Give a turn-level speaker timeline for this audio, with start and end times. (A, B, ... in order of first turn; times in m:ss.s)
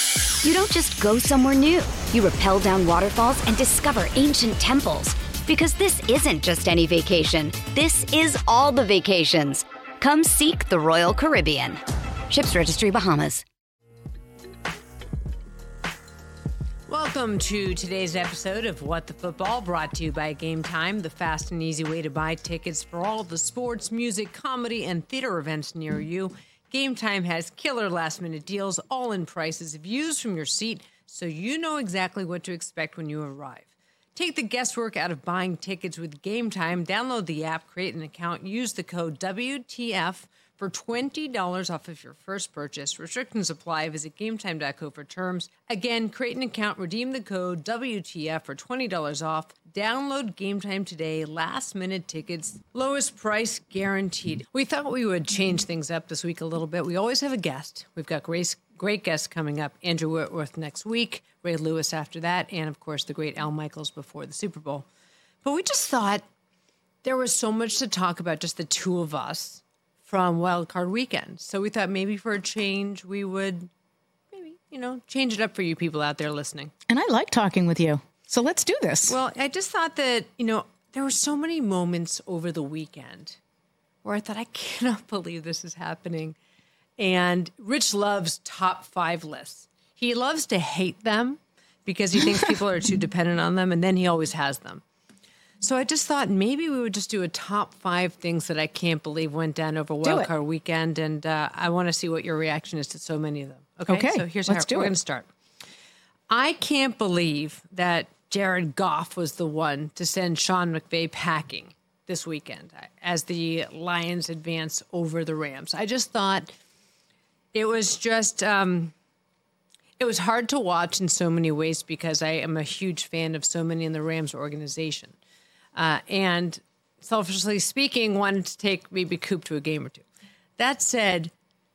0:00.4-0:13.4 A
0:16.9-1:04.8 B
1:05.4-1:06.2 B
1:07.0-1:13.7 B
1:14.3-1:16.7 B
1:16.9-1:19.1 C
1:19.1-1:23.4 B
1:24.0-1:26.4 B
1:27.0-1:34.8 B
1:35.6-1:45.2 B
1:40.0-1:40.3 C
1:43.9-1:44.9 C
1:46.3-1:56.5 B
1:57.5-1:58.9 B
2:00.0-2:05.1 B
2:05.7-2:10.0 B
2:10.6-2:11.3 B